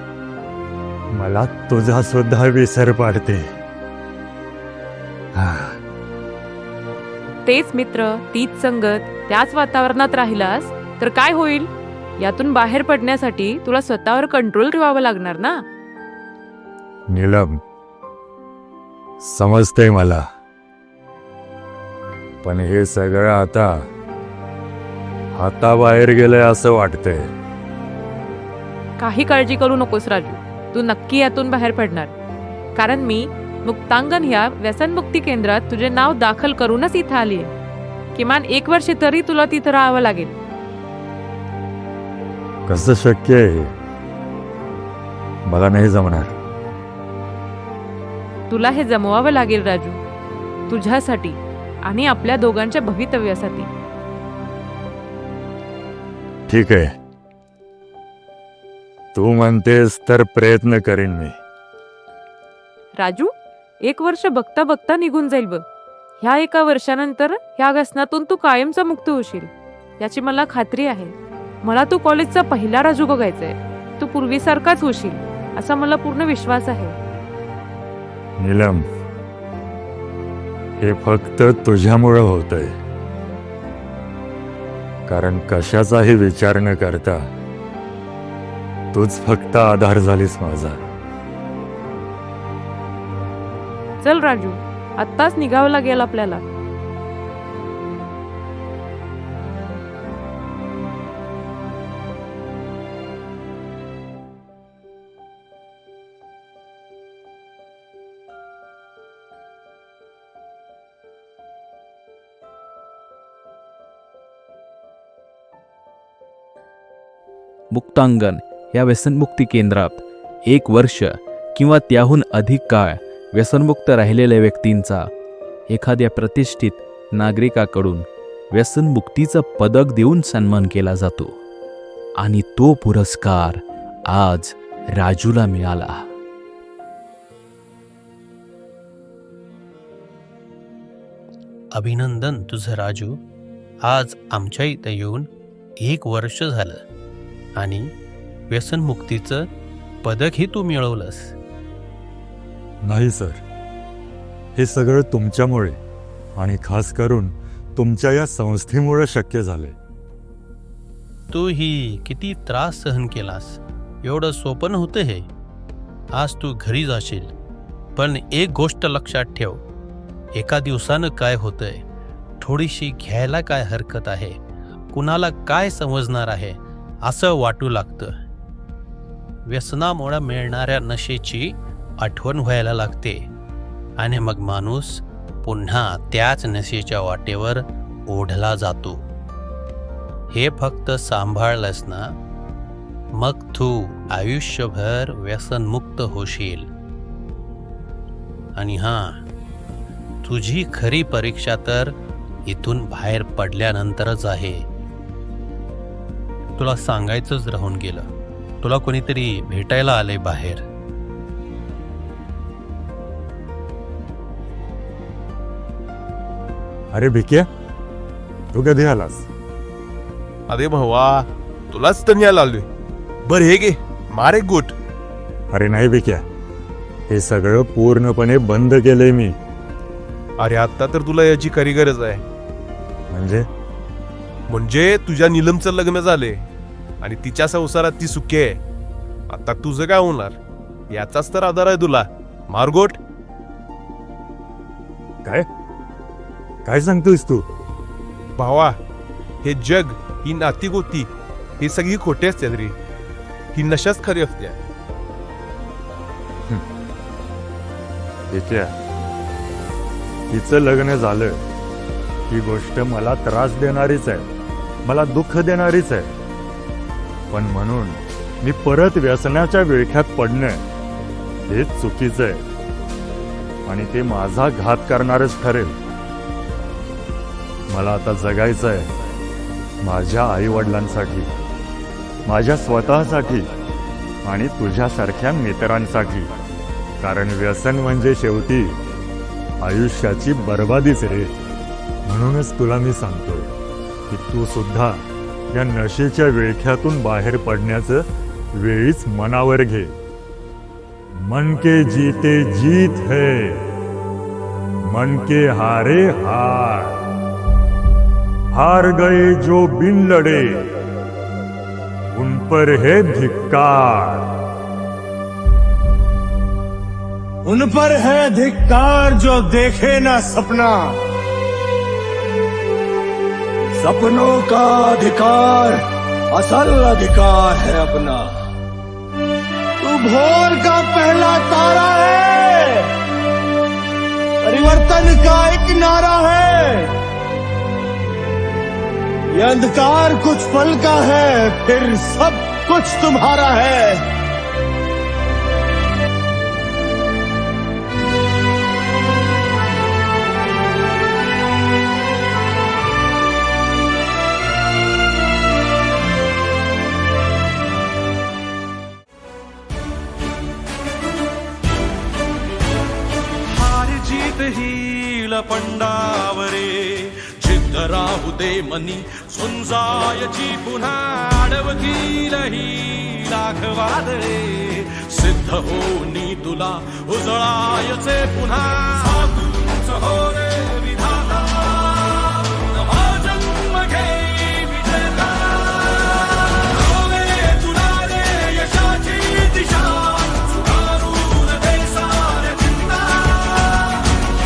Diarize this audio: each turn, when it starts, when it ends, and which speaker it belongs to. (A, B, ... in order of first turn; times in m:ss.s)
0:01.1-0:03.4 A
0:05.4-0:05.8 A
0:07.4-0:15.6 B
0:17.1-0:17.6 A
0:19.2-0:20.2 A
0:22.4-0:23.8 A
0:25.4-0:27.3 A
0:29.0-0:32.1 B
0:32.8-0:37.5 B
0:38.2-0:40.3 B
0:42.7-0:43.7 A
0:45.5-0:46.4 A
0:48.5-0:50.0 B
0:50.7-0:53.7 B
0:56.5-0:56.9 A
0:59.2-1:01.4 A
1:03.0-1:03.3 B
1:03.8-1:05.6 B
1:06.2-1:17.0 B
1:18.4-1:18.8 A
1:20.8-1:22.7 A
1:25.1-1:27.3 A
1:28.9-1:30.8 A
1:34.0-1:36.4 B
1:57.7-2:05.1 C
2:05.7-2:11.4 C
2:12.2-2:16.1 C
2:21.7-2:23.2 D
2:23.8-2:25.3 D
2:25.8-2:26.8 D
2:27.6-2:27.9 D
2:28.5-2:29.5 D
2:30.0-2:31.3 D
2:32.8-2:33.4 A
2:34.6-2:35.8 A
2:36.4-2:39.8 A
2:41.3-2:45.3 D
2:46.1-2:47.3 D
2:48.0-2:49.6 D
2:50.4-2:51.8 D
2:52.4-2:54.4 D
2:54.9-2:58.1 D
2:59.5-3:03.3 D
3:04.0-3:09.0 D
3:10.3-3:12.1 D
3:13.2-3:16.7 D
3:18.6-3:19.2 D
3:20.2-3:22.0 D
3:22.5-3:24.6 D
3:26.6-3:28.1 D
3:28.6-3:30.6 D
3:36.9-3:37.5 A
3:38.5-3:39.3 A
3:40.5-3:42.7 E
3:43.3-3:44.7 E
3:45.5-3:46.2 A
3:47.1-3:49.4 A
3:50.4-3:52.2 E
3:53.1-3:53.4 A
3:54.5-3:56.4 E
3:57.0-3:58.6 E
3:59.3-4:00.3 E
4:00.9-4:03.0 E
4:06.7-4:07.4 A
4:08.4-4:08.7 E
4:09.4-4:11.1 E
4:11.6-4:12.7 E
4:13.5-4:14.6 E
4:18.3-4:18.7 A
4:20.3-4:21.4 A
4:22.3-4:24.3 A
4:24.8-4:26.1 A
4:27.3-4:30.6 A
4:31.5-4:32.4 A
4:33.7-4:35.8 A
4:37.7-4:38.9 A
4:39.8-4:41.4 A
4:42.3-4:43.5 A
4:44.2-4:46.3 A
4:47.0-4:48.8 A
4:49.6-4:51.4 A
4:52.1-4:53.5 A
4:54.1-4:58.0 A
4:58.6-4:59.9 A
5:01.3-5:03.6 A
5:04.9-5:07.0 A
5:08.6-5:10.7 A
5:12.1-5:14.4 A
5:17.4-5:21.0 F
5:23.8-5:25.8 F
5:26.3-5:28.3 F
5:29.8-5:32.9 F
5:34.4-5:36.9 F
5:39.3-5:44.0 F
6:03.6-6:21.4 G
6:22.9-6:25.1 G
6:27.1-6:32.9 G